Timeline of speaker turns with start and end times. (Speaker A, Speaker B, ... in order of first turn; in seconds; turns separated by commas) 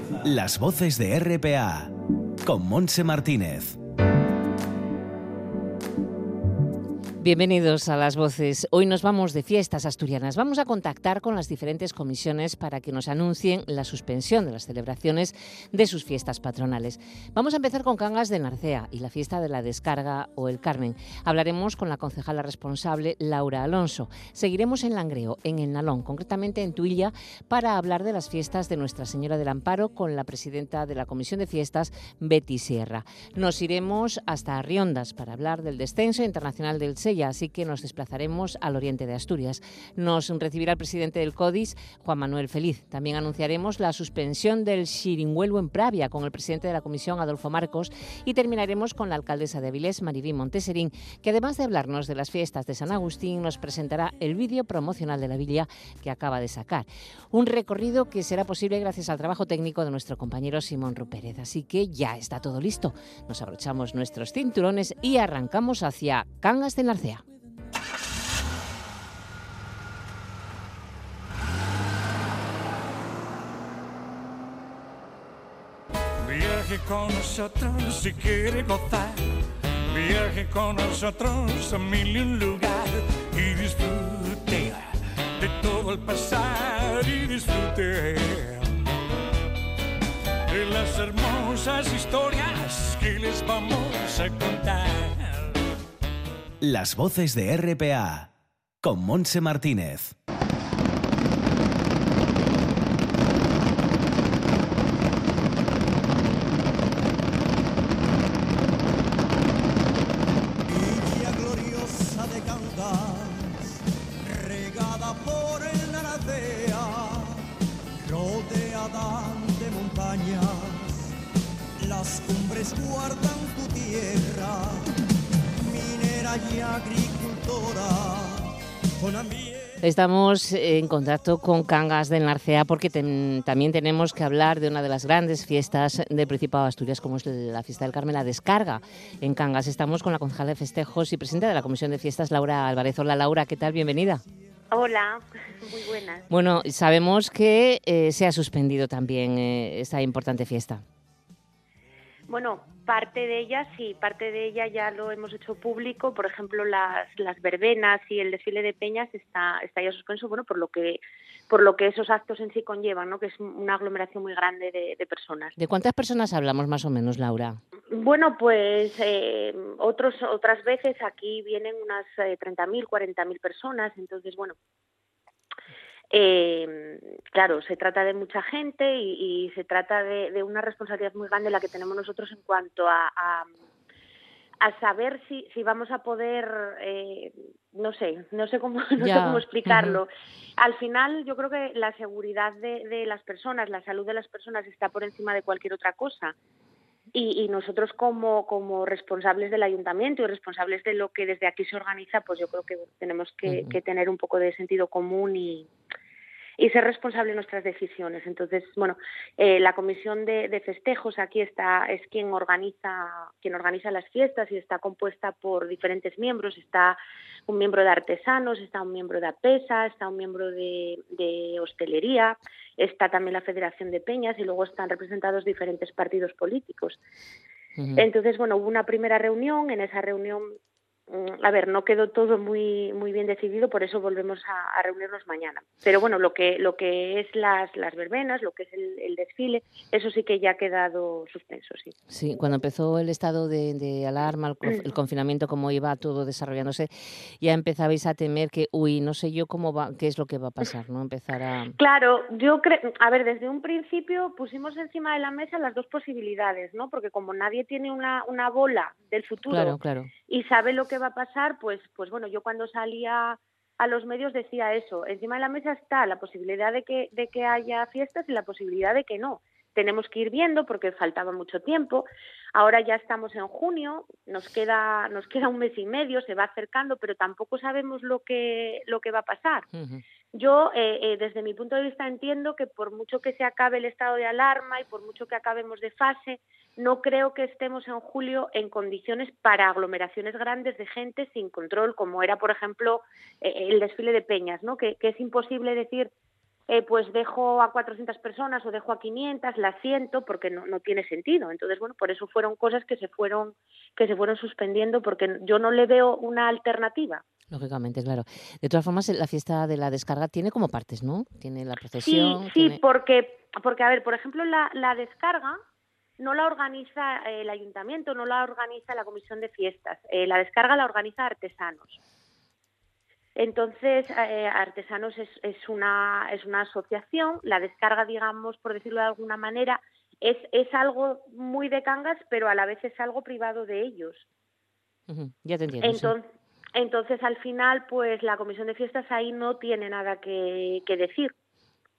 Speaker A: 0.2-1.9, Speaker A: 2.4-3.8, Speaker B: 7.2-67.2, Speaker C: 76.2-79.3, Speaker C: 79.9-88.9, Speaker C: 90.5-95.6, Speaker A: 96.6-98.3, Speaker A: 98.8-100.1, Speaker D: 110.7-117.5, Speaker D: 118.0-121.1, Speaker D: 121.8-125.0, Speaker D: 125.6-129.6, Speaker B: 129.8-144.2, Speaker E: 144.7-146.3, Speaker B: 146.3-150.8, Speaker E: 152.3-165.5, Speaker B: 165.6-167.6, Speaker E: 167.9-174.6, Speaker E: 176.1-183.5, Speaker E: 184.6-196.3, Speaker B: 189.0-190.0, Speaker E: 197.1-205.7, Speaker B: 203.5-203.7, Speaker E: 206.6-227.0, Speaker B: 227.8-228.0, Speaker E: 228.0-230.5, Speaker E: 231.1-241.9, Speaker B: 242.1-251.8, Speaker E: 251.8-279.7, Speaker B: 259.5-260.1, Speaker B: 279.7-280.0, Speaker E: 280.3-296.1, Speaker E: 296.7-307.2, Speaker B: 307.5-312.8, Speaker E: 312.0-315.6, Speaker E: 316.2-322.0, Speaker E: 323.4-334.2, Speaker B: 335.1-336.1, Speaker E: 335.8-341.3